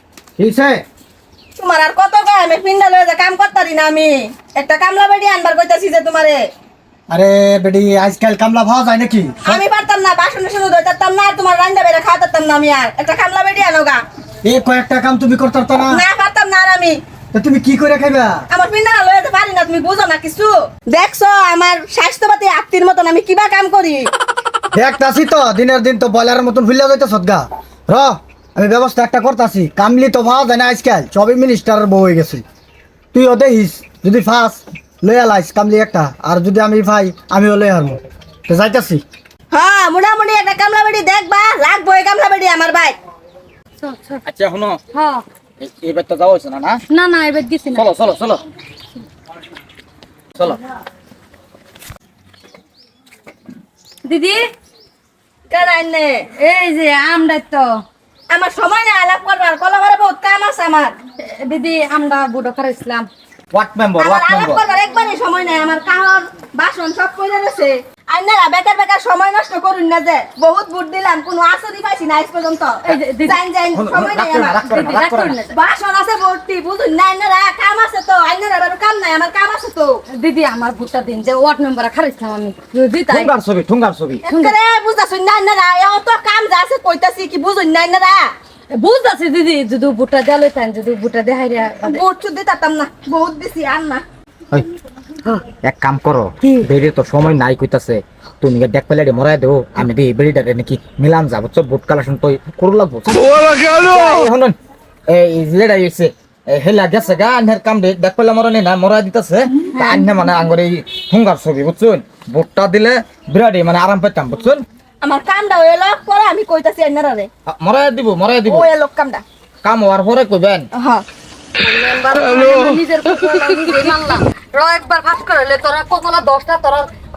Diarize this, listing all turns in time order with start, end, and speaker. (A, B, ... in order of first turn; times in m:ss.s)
0:00.4-0:00.8 A
0:01.6-0:06.5 B
0:07.1-0:09.6 A
0:09.4-0:14.0 B
0:14.4-0:16.0 A
0:15.8-0:17.0 B
0:17.3-0:18.4 A
0:18.5-0:24.1 B
0:24.7-0:32.4 A
0:33.1-0:39.0 A
0:39.5-0:43.0 B
0:43.8-0:44.2 C
0:44.2-0:44.8 D
0:44.9-0:45.2 C
0:45.6-0:46.8 D
0:46.9-0:47.8 C
0:47.7-0:48.4 D
0:54.0-0:54.4 C
0:55.5-0:56.2 B
0:56.4-0:57.8 C
0:58.3-1:00.9 B
1:01.4-1:03.1 C
1:03.5-1:04.6 D
1:04.0-1:14.7 B
1:12.8-1:13.4 C
1:13.7-1:15.4 D
1:14.6-1:15.5 C
1:15.5-1:20.0 B
1:20.1-1:23.3 C
1:23.1-1:24.2 D
1:24.2-1:28.3 B
1:24.3-1:24.6 C
1:28.7-1:32.0 C
1:31.8-1:34.0 B
1:35.6-1:44.6 D
1:45.1-1:54.6 D
1:49.8-1:50.1 B
1:55.0-1:57.3 B
1:57.5-1:58.7 D
1:58.4-1:59.2 B
1:59.6-2:00.7 D
2:00.8-2:01.0 B
2:01.6-2:06.9 C